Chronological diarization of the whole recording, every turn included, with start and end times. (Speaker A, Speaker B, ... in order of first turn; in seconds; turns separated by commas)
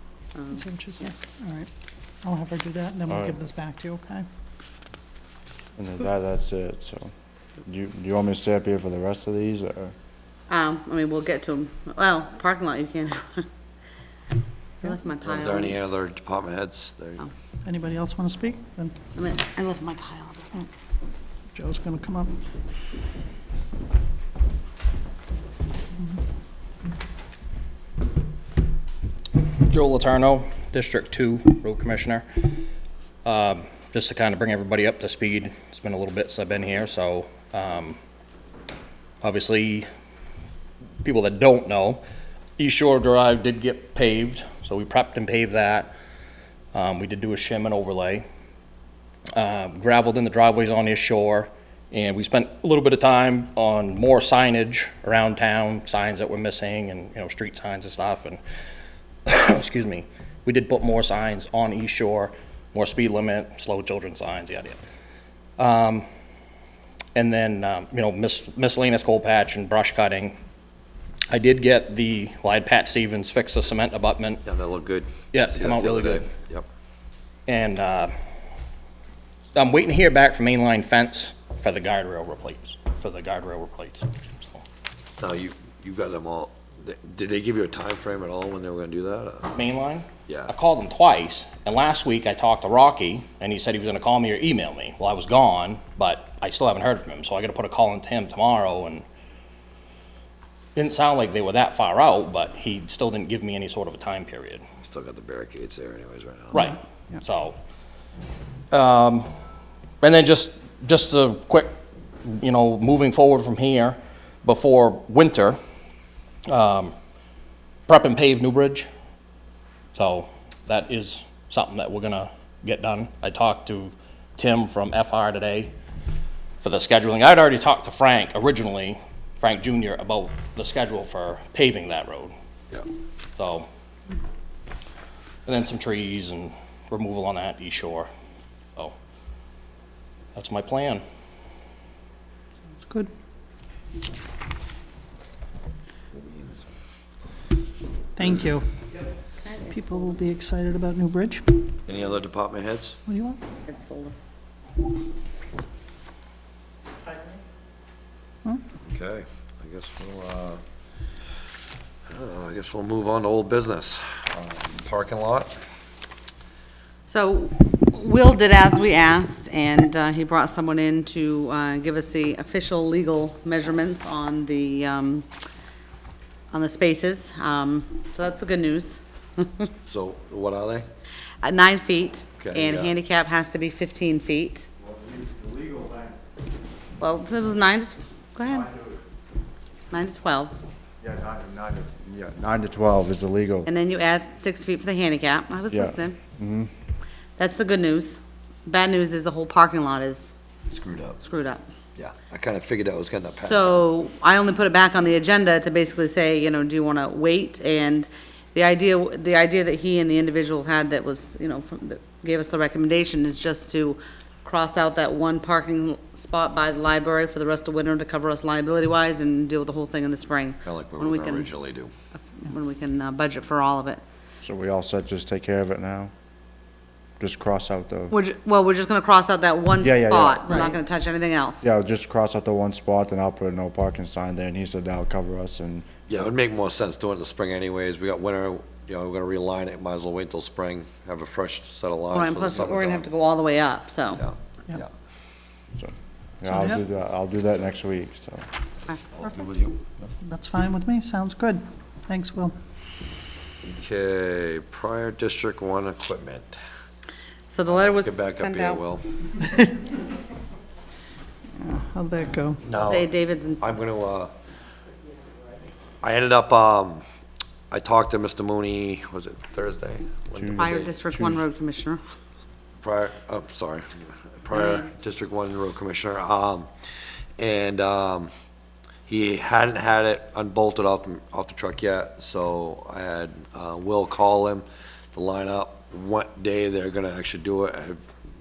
Speaker A: 0.5-1.7, Speaker A: 2.2-4.2, Speaker B: 3.1-3.4, Speaker B: 5.8-7.1, Speaker B: 7.7-9.9, Speaker C: 10.5-13.5, Speaker C: 14.8-15.8, Speaker D: 15.2-17.2, Speaker A: 17.6-19.0, Speaker C: 19.1-20.6, Speaker A: 21.5-22.3, Speaker E: 29.6-32.6, Speaker E: 33.2-38.0, Speaker E: 39.2-39.9, Speaker E: 41.0-42.0, Speaker E: 42.6-45.9, Speaker E: 46.7-48.2, Speaker E: 49.4-58.4, Speaker E: 59.3-64.8, Speaker E: 65.6-66.0, Speaker E: 67.2-70.4, Speaker E: 71.3-74.4, Speaker D: 74.5-76.7, Speaker E: 75.3-76.3, Speaker E: 77.5-78.1, Speaker E: 79.5-84.6, Speaker D: 85.2-89.5, Speaker E: 89.5-99.0, Speaker D: 90.3-90.5, Speaker E: 100.8-104.6, Speaker D: 104.8-106.7, Speaker E: 106.5-107.6, Speaker E: 108.7-109.3, Speaker E: 110.0-115.6, Speaker E: 116.5-116.9, Speaker E: 117.9-118.9, Speaker E: 120.0-125.7, Speaker E: 126.6-132.3, Speaker E: 133.4-133.7, Speaker E: 135.5-138.1, Speaker E: 140.3-141.0, Speaker A: 142.9-143.1, Speaker D: 146.2-146.6, Speaker A: 148.2-148.7, Speaker C: 149.4-150.2, Speaker A: 149.7-151.6, Speaker D: 151.9-153.0, Speaker A: 153.1-153.4, Speaker C: 153.6-154.2, Speaker D: 158.8-160.6, Speaker D: 162.1-165.5, Speaker C: 167.1-175.3, Speaker C: 176.5-179.7, Speaker D: 179.8-180.9, Speaker C: 181.4-184.7, Speaker D: 182.4-182.9, Speaker B: 184.8-186.2, Speaker C: 187.0-188.7, Speaker B: 188.5-189.0, Speaker C: 189.9-190.6, Speaker B: 191.0-193.7, Speaker C: 193.7-196.2, Speaker B: 195.7-196.7, Speaker C: 197.4-200.3, Speaker D: 200.7-201.2, Speaker C: 201.2-201.6, Speaker D: 202.0-203.8, Speaker C: 203.3-221.5, Speaker D: 220.6-221.9, Speaker C: 222.4-224.0, Speaker B: 224.4-226.1, Speaker B: 227.2-228.1, Speaker C: 228.1-231.7, Speaker B: 229.8-230.6, Speaker A: 230.5-230.8, Speaker B: 231.6-236.1, Speaker D: 236.1-243.1, Speaker C: 242.1-244.3, Speaker D: 244.2-244.9, Speaker B: 245.8-248.5, Speaker A: 246.4-246.8, Speaker D: 249.2-250.0, Speaker A: 250.2-252.6, Speaker D: 253.6-256.6, Speaker C: 257.5-258.9, Speaker D: 257.7-259.0, Speaker A: 261.6-262.7, Speaker D: 262.6-264.3, Speaker C: 262.8-263.7, Speaker D: 266.0-267.0, Speaker D: 267.7-270.9, Speaker B: 270.4-271.4, Speaker C: 270.6-272.0, Speaker D: 272.8-276.7, Speaker C: 274.6-274.9, Speaker D: 277.4-278.3, Speaker D: 279.1-288.0